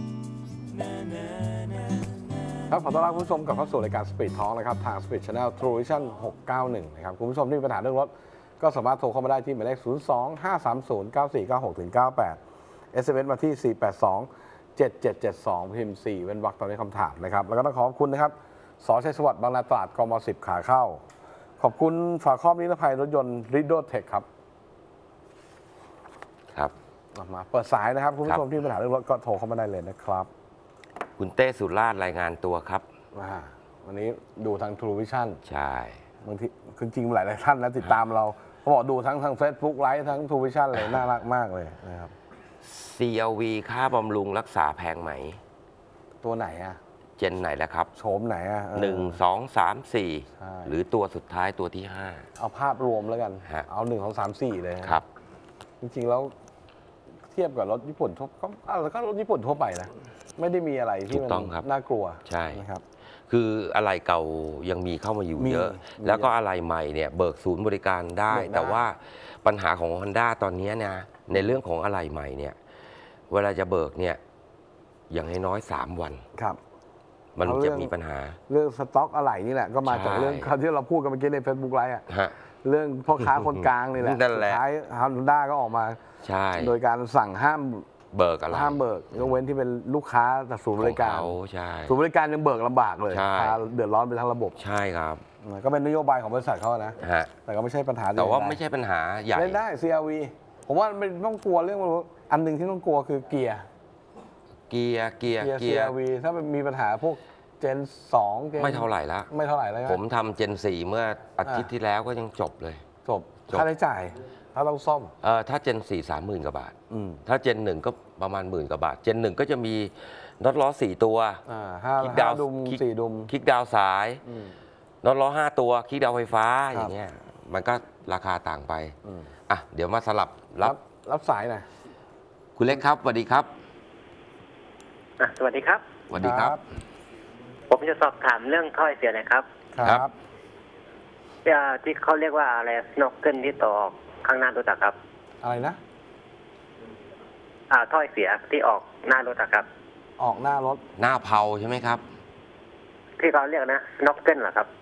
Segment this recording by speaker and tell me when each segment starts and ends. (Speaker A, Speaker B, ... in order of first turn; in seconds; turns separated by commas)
Speaker A: 2.7-12.4, Speaker A: 12.9-21.0, Speaker A: 21.6-24.3, Speaker A: 27.1-30.3, Speaker B: 31.2-32.9, Speaker A: 33.1-35.4, Speaker B: 35.5-36.0, Speaker A: 36.2-42.1, Speaker B: 42.6-45.4, Speaker A: 46.2-46.8, Speaker B: 47.2-47.9, Speaker A: 48.0-49.2, Speaker B: 48.7-52.3, Speaker A: 50.4-50.7, Speaker A: 52.4-55.0, Speaker A: 55.8-56.3, Speaker A: 57.3-62.8, Speaker B: 61.1-61.7, Speaker B: 62.3-62.6, Speaker B: 63.3-72.6, Speaker A: 65.4-66.3, Speaker A: 68.3-68.8, Speaker B: 73.3-74.2, Speaker B: 75.1-76.2, Speaker B: 77.4-78.4, Speaker A: 77.4-77.9, Speaker A: 78.5-82.0, Speaker B: 79.8-80.5, Speaker B: 82.1-82.4, Speaker A: 82.6-86.0, Speaker B: 83.2-84.6, Speaker B: 86.2-86.7, Speaker A: 86.6-87.9, Speaker B: 88.1-89.4, Speaker A: 88.5-94.6, Speaker B: 90.8-91.9, Speaker B: 93.1-93.6, Speaker B: 94.5-95.2, Speaker A: 95.4-98.6, Speaker B: 97.0-97.3, Speaker B: 98.2-99.6, Speaker A: 99.3-103.7, Speaker B: 104.7-106.0, Speaker A: 105.4-110.0, Speaker B: 108.6-109.3, Speaker B: 109.8-112.8, Speaker A: 113.0-115.1, Speaker B: 115.2-116.8, Speaker A: 116.9-117.2, Speaker B: 117.3-121.4, Speaker A: 121.5-123.3, Speaker B: 122.0-124.2, Speaker A: 124.2-124.5, Speaker B: 125.0-128.9, Speaker A: 129.0-129.3, Speaker B: 129.5-130.8, Speaker A: 130.6-131.7, Speaker B: 132.6-133.5, Speaker C: 135.2-135.8, Speaker B: 136.1-136.6, Speaker A: 136.2-136.6, Speaker C: 137.7-139.4, Speaker A: 139.7-140.1, Speaker C: 141.4-145.0, Speaker A: 145.4-145.8, Speaker C: 147.7-149.7, Speaker A: 150.2-150.8, Speaker B: 151.0-152.0, Speaker C: 153.2-154.7